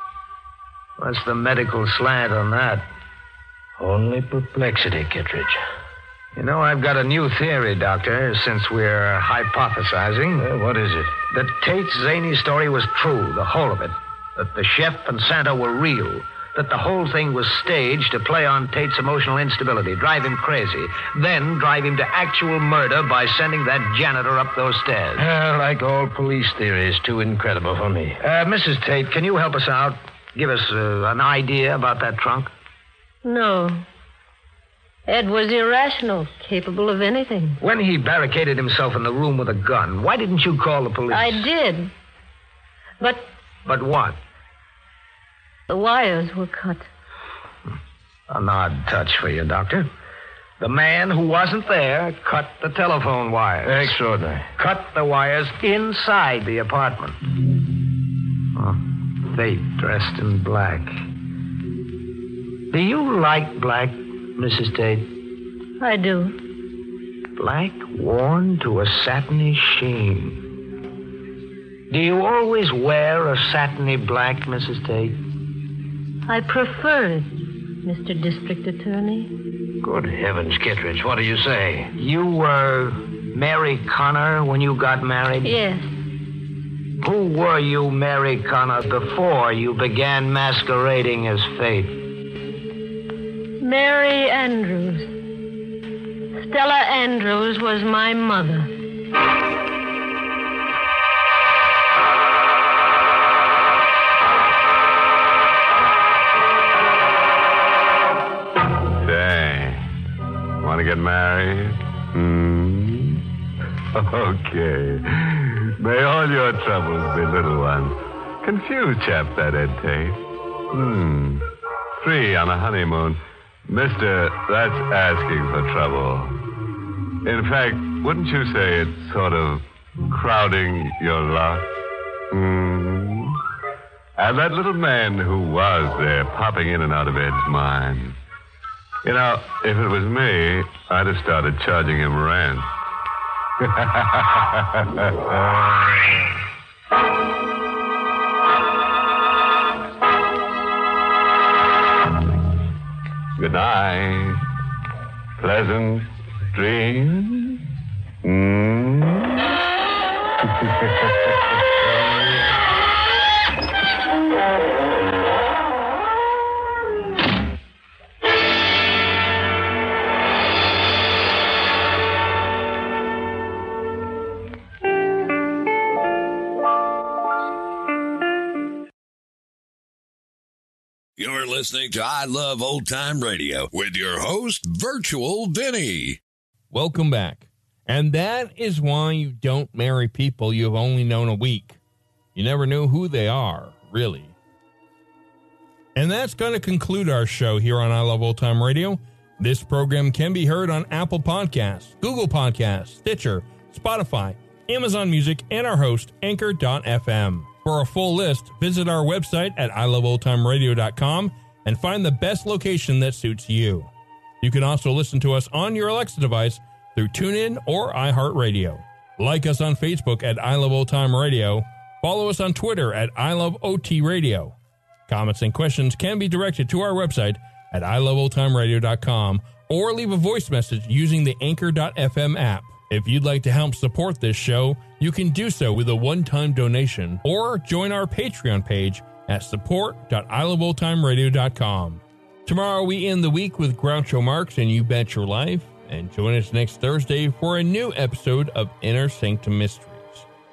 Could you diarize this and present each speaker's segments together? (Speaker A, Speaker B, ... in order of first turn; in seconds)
Speaker A: 1.0-2.8, 6.3-10.5, 11.3-25.2, 28.2-32.5, 37.6-41.5, 43.6-44.2, 48.3-49.9, 50.6-53.9, 54.6-57.2, 58.6-60.9, 62.7-65.1, 67.4-70.4, 71.9-75.2, 82.0-85.6, 87.0-92.0
Speaker B: 3.8-5.6, 10.4-11.1, 25.2-28.2, 53.6-54.5, 79.8-81.9
Speaker C: 33.2-33.9, 35.1-37.6, 41.1-41.9, 43.0-43.3, 45.7-46.9, 65.8-66.4, 76.3-77.3, 77.8-79.3, 85.4-85.9, 93.6-95.1, 96.4-98.7
Speaker D: 109.0-109.9, 110.6-113.2, 113.9-120.2, 120.7-121.5, 122.0-126.4, 127.2-131.7, 132.3-133.4, 134.2-138.2, 139.0-142.7, 143.6-146.2, 153.4-154.4, 155.4-157.6, 158.2-159.4, 160.6-161.4
Speaker E: 181.2-186.2
Speaker F: 186.7-191.8, 192.3-194.3, 196.0-213.9, 214.4-224.6, 225.1-250.3